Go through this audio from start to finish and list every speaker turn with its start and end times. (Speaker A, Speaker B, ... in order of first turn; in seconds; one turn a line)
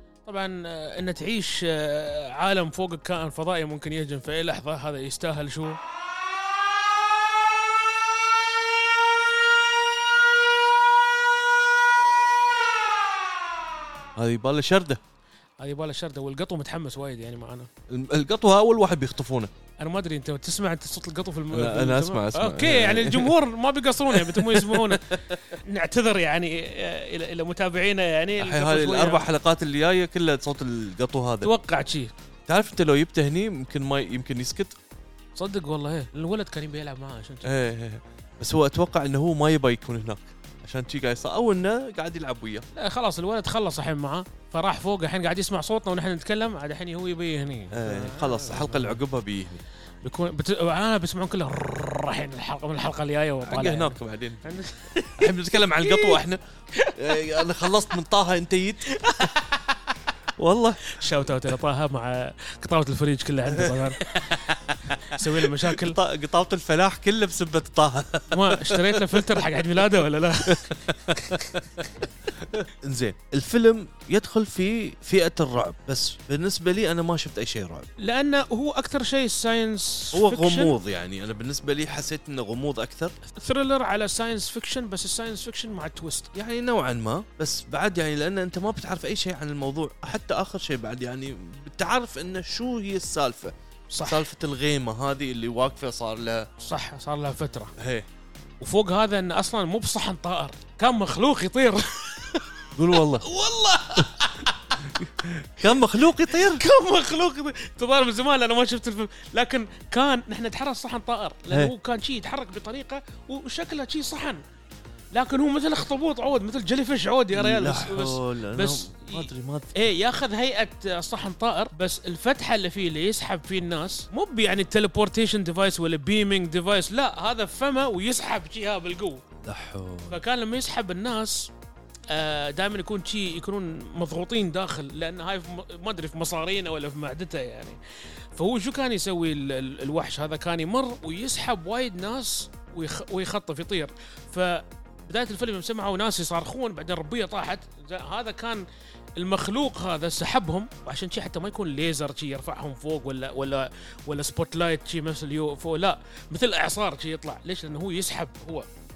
Speaker A: 0.2-5.8
Speaker B: 14.2-15.0
Speaker A: 15.6-17.7
Speaker B: 17.9-19.5
Speaker A: 19.8-29.2
Speaker B: 21.5-23.4
Speaker B: 24.1-25.4
Speaker B: 28.4-31.5
Speaker A: 31.4-32.1
Speaker B: 32.5-34.8
Speaker A: 35.4-37.5
Speaker B: 37.4-42.6
Speaker A: 42.7-49.0
Speaker B: 47.7-49.6
Speaker A: 50.0-56.2
Speaker B: 53.4-54.5
Speaker B: 55.1-56.4
Speaker A: 56.7-57.7
Speaker B: 56.9-59.3
Speaker A: 58.9-59.9
Speaker B: 60.4-61.5
Speaker A: 60.9-64.4
Speaker B: 63.5-69.8
Speaker A: 64.9-66.0
Speaker A: 68.3-71.9
Speaker B: 70.5-77.9
Speaker A: 78.0-80.7
Speaker B: 80.1-83.1
Speaker A: 83.3-86.3
Speaker B: 86.3-96.5
Speaker A: 93.9-94.3
Speaker A: 96.6-97.7
Speaker B: 97.8-98.1
Speaker A: 98.6-105.1
Speaker B: 102.7-103.2
Speaker B: 104.8-106.6
Speaker A: 105.7-114.4
Speaker A: 115.1-129.2
Speaker B: 117.3-119.9
Speaker B: 129.4-130.2
Speaker A: 130.1-131.5
Speaker A: 132.1-137.8
Speaker A: 138.3-148.6
Speaker A: 149.2-158.7